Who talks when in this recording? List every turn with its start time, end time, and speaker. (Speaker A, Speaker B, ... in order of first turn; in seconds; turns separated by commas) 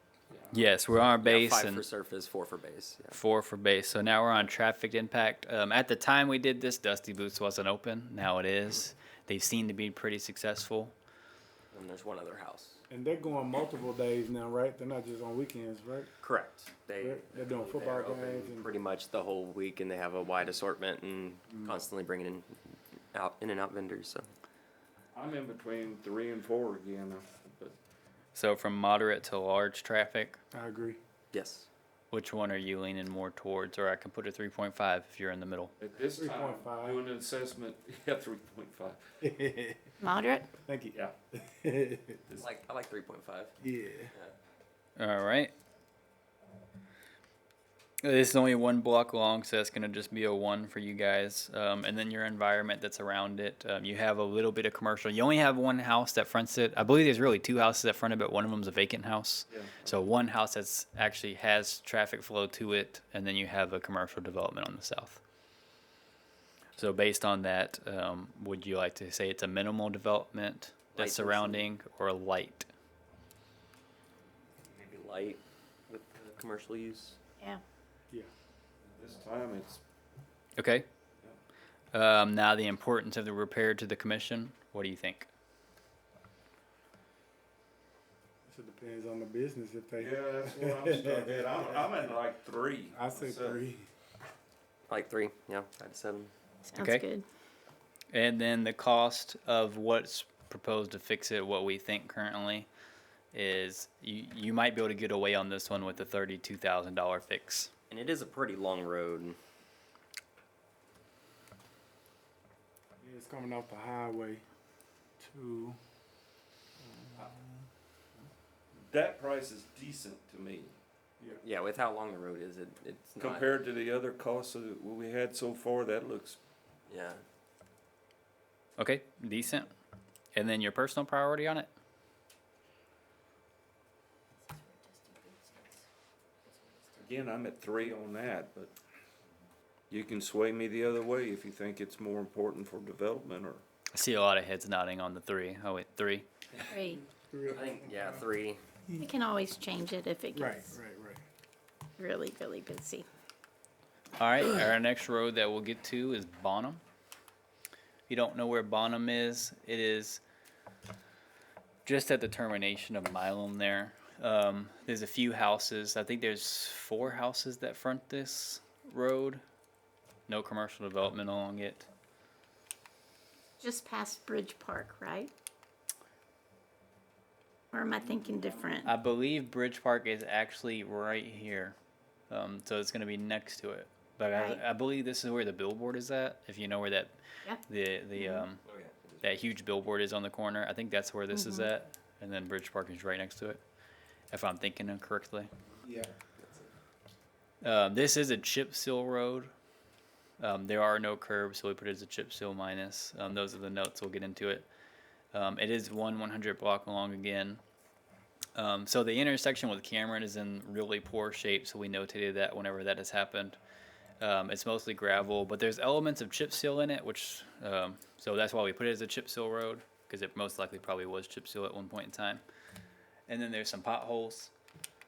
Speaker A: 0.3-0.6, Speaker B: 0.5-1.8, Speaker C: 1.2-3.2, Speaker B: 3.1-10.9, Speaker C: 11.7-12.8, Speaker D: 12.9-16.1, Speaker C: 16.2-24.3, Speaker D: 17.0-18.7, Speaker D: 21.5-21.8, Speaker A: 25.1-27.8, Speaker B: 28.3-30.4, Speaker D: 30.5-31.0, Speaker C: 31.3-31.7, Speaker B: 32.1-35.7, Speaker A: 35.8-39.0, Speaker D: 36.1-37.0, Speaker D: 39.2-39.9, Speaker E: 40.0-40.5, Speaker D: 40.6-42.2, Speaker C: 42.4-43.5, Speaker D: 43.6-44.1, Speaker B: 45.0-45.5, Speaker B: 48.0-65.2, Speaker A: 59.5-59.8, Speaker B: 66.8-72.7, Speaker C: 71.0-71.7, Speaker C: 74.7-77.2, Speaker A: 78.8-79.8, Speaker B: 80.6-80.9, Speaker B: 81.9-85.3, Speaker D: 88.5-91.9, Speaker A: 90.0-93.6, Speaker D: 92.9-93.9, Speaker C: 94.9-96.3, Speaker E: 96.7-97.3, Speaker B: 96.8-97.0, Speaker B: 98.1-102.7, Speaker B: 103.3-107.7, Speaker C: 107.9-109.4, Speaker D: 113.0-114.4, Speaker D: 115.2-115.8, Speaker D: 117.1-117.5, Speaker A: 118.7-120.8, Speaker C: 121.4-123.5, Speaker A: 123.2-126.4, Speaker C: 126.9-127.2, Speaker B: 128.8-129.7, Speaker B: 130.3-131.7, Speaker A: 137.0-138.7, Speaker A: 139.9-143.6, Speaker B: 143.9-146.3, Speaker E: 146.7-147.0, Speaker D: 147.2-148.2, Speaker C: 147.5-148.6, Speaker E: 149.0-150.7, Speaker D: 150.3-151.2, Speaker E: 152.0-153.1, Speaker B: 154.2-156.8, Speaker B: 158.1-160.2, Speaker B: 161.8-169.4, Speaker B: 170.3-171.9, Speaker E: 173.6-175.3, Speaker E: 177.7-178.9, Speaker B: 178.8-181.8, Speaker B: 182.3-188.6, Speaker E: 184.3-184.6, Speaker E: 188.2-188.5, Speaker C: 188.6-189.3, Speaker B: 189.2-193.6, Speaker E: 191.3-191.7, Speaker B: 194.3-195.5, Speaker D: 195.8-196.1, Speaker C: 196.4-196.7, Speaker B: 197.6-199.5, Speaker B: 200.4-204.7, Speaker B: 205.3-207.6, Speaker B: 208.6-213.6, Speaker B: 214.2-222.4, Speaker B: 223.3-224.5